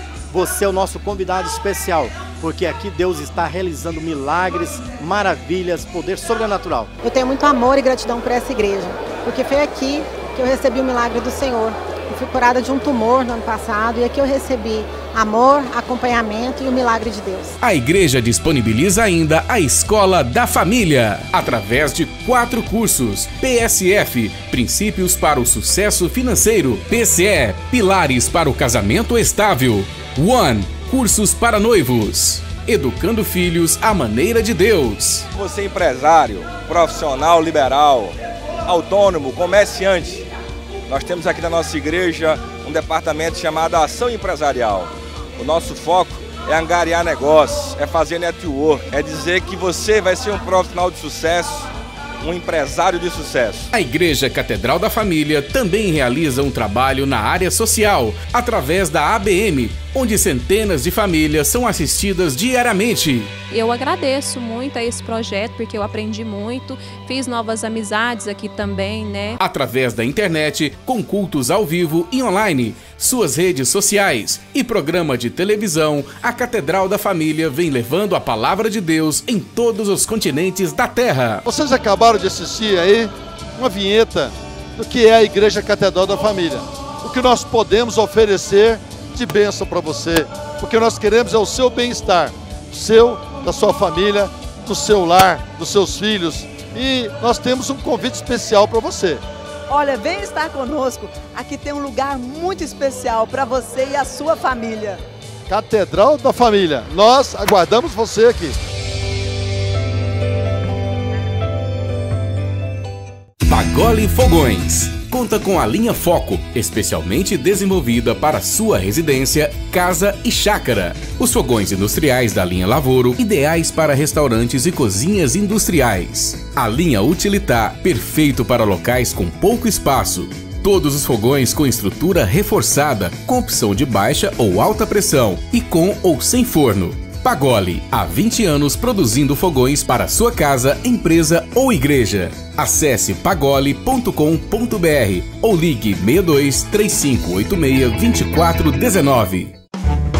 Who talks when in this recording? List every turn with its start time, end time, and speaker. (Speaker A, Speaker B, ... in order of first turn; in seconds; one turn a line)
Speaker A: 0.3-6.9
Speaker B: 7.0-17.6
Speaker C: 17.6-35.2
Speaker D: 35.3-38.1
Speaker D: 38.6-40.2
Speaker D: 40.9-51.7
Speaker D: 52.2-53.7
Speaker C: 53.7-63.4
Speaker E: 63.5-69.4
Speaker C: 69.4-81.4
Speaker F: 81.5-99.2
Speaker G: 99.7-105.0
Speaker F: 105.5-108.5
Speaker C: 113.5-149.5